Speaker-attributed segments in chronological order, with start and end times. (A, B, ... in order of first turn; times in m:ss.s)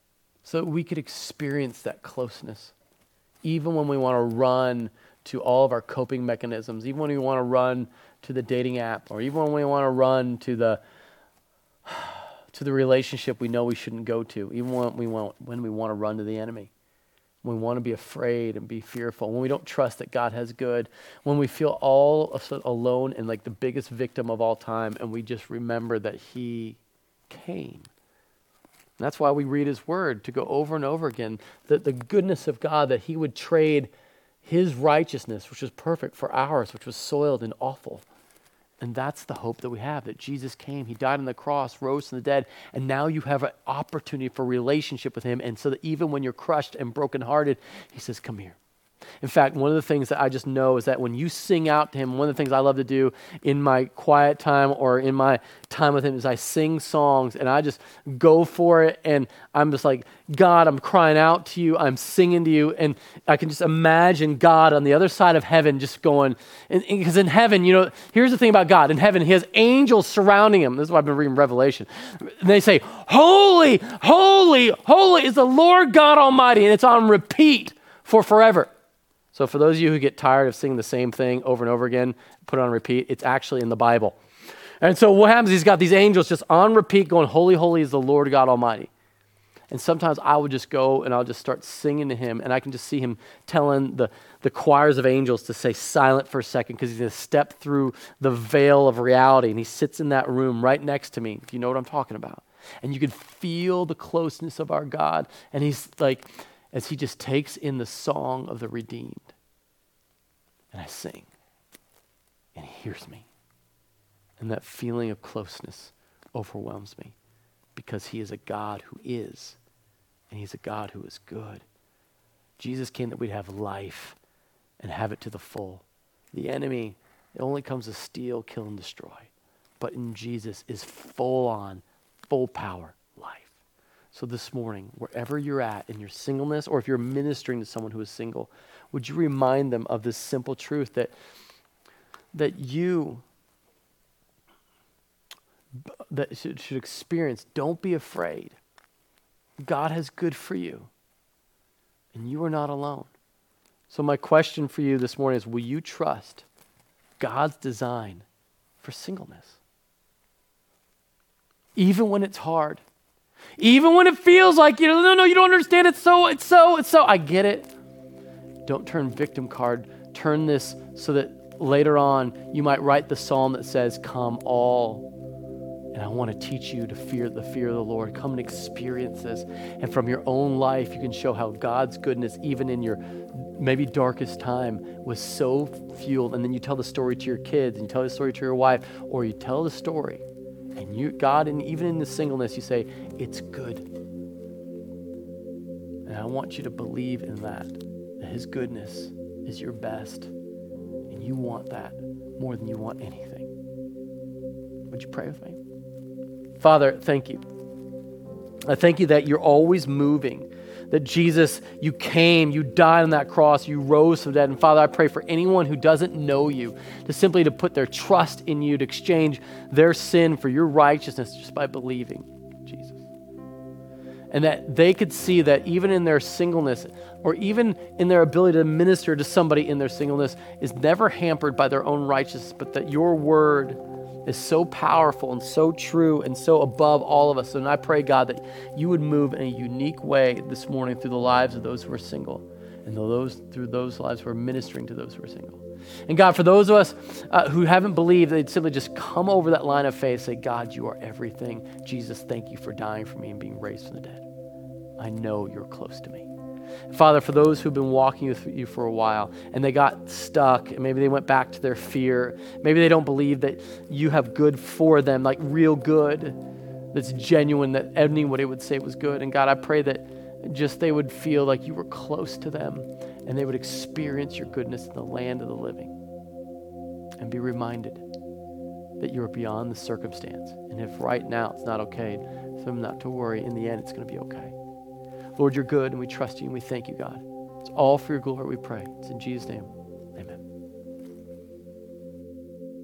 0:00.4-0:02.7 A
0:03.4-0:10.8 A
0:11.9-0:16.7 A
0:17.4-0:26.8 A
0:27.3-0:27.9 A
0:29.0-0:33.9 A
0:34.4-0:38.0 A
0:38.8-0:48.6 A
0:49.2-1:18.7 A
1:19.3-1:24.2 A
1:24.8-1:28.9 A
1:29.7-1:49.3 A
1:50.7-1:51.3 A
1:52.6-1:53.3 A
1:54.4-1:57.2 A
1:57.8-1:59.6 A
2:00.3-2:01.6 A
2:02.6-2:04.2 A
2:04.8-2:09.3 A
2:09.8-2:13.5 A
2:14.1-2:21.1 A
2:22.3-2:23.2 A
2:26.1-2:28.6 A
2:29.6-2:30.9 A
2:32.1-2:33.1 A
2:33.9-2:36.4 A
2:37.2-2:38.2 A
2:38.8-2:39.6 A
2:41.8-2:42.8 A
2:43.6-2:47.7 A
2:48.7-2:55.1 A
2:55.9-3:10.2 A
3:10.8-3:13.9 A
3:16.1-3:20.3 A
3:21.1-3:23.5 A
3:24.9-3:25.6 A
3:26.6-3:27.4 A
3:28.7-3:43.0 A
3:44.3-4:14.2 A
4:15.0-4:16.3 A
4:16.9-4:26.4 A
4:26.9-4:35.9 A
4:37.2-4:38.0 A
4:39.0-4:44.5 A
4:45.4-4:50.4 A